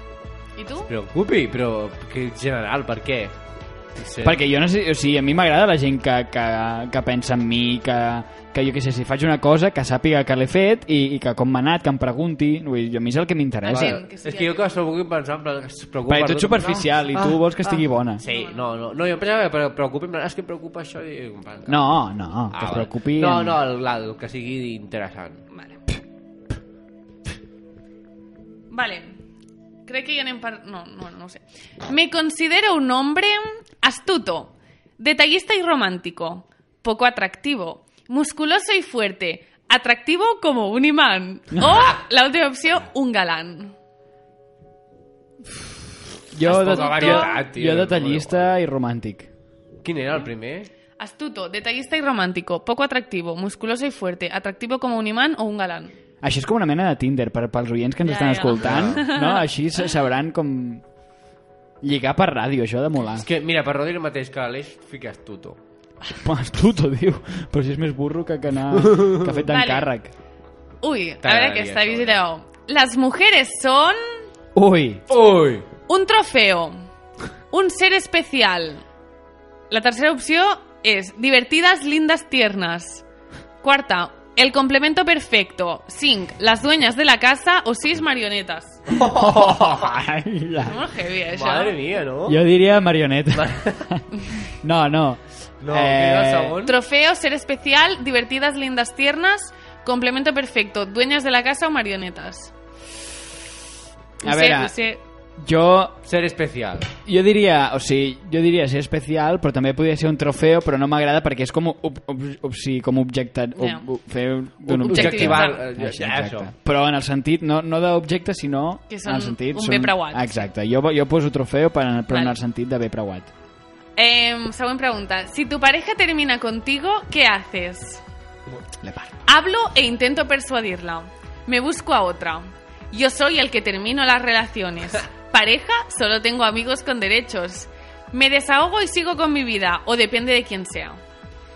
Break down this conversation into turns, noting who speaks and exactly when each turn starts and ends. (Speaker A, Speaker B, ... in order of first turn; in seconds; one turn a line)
Speaker A: 0.6-0.9
Speaker B: 0.9-3.3
Speaker B: 4.0-4.4
Speaker C: 4.2-14.0
Speaker A: 13.6-14.7
Speaker B: 13.7-21.8
Speaker C: 16.1-18.2
Speaker A: 18.2-18.6
Speaker C: 21.7-23.6
Speaker B: 22.5-25.4
Speaker A: 25.5-25.8
Speaker A: 28.7-29.2
Speaker A: 29.9-43.7
Speaker C: 46.3-49.3
Speaker B: 46.5-48.5
Speaker A: 46.5-47.4
Speaker B: 49.8-50.7
Speaker A: 51.0-56.0
Speaker C: 56.2-60.8
Speaker A: 58.0-59.5
Speaker B: 58.6-59.0
Speaker C: 61.8-63.3
Speaker B: 63.1-65.6
Speaker C: 66.2-70.1
Speaker B: 68.8-69.3
Speaker A: 69.5-69.9
Speaker A: 70.8-74.0
Speaker B: 71.2-72.2
Speaker C: 74.5-75.0
Speaker B: 75.1-75.7
Speaker A: 75.9-76.8
Speaker A: 77.5-78.8
Speaker A: 79.7-83.0
Speaker A: 83.6-88.8
Speaker B: 88.9-89.9
Speaker C: 89.0-90.8
Speaker A: 90.6-91.8
Speaker B: 91.3-92.4
Speaker C: 92.3-96.5
Speaker B: 93.3-93.9
Speaker B: 95.6-96.7
Speaker A: 96.6-102.5
Speaker C: 104.2-104.7
Speaker A: 104.2-105.0
Speaker C: 105.4-106.0
Speaker B: 106.0-106.9
Speaker C: 107.0-123.3
Speaker A: 113.6-113.8
Speaker B: 114.7-116.5
Speaker A: 114.9-115.7
Speaker A: 118.9-120.5
Speaker A: 122.1-122.3
Speaker A: 124.0-128.0
Speaker C: 128.8-129.1
Speaker A: 129.2-141.0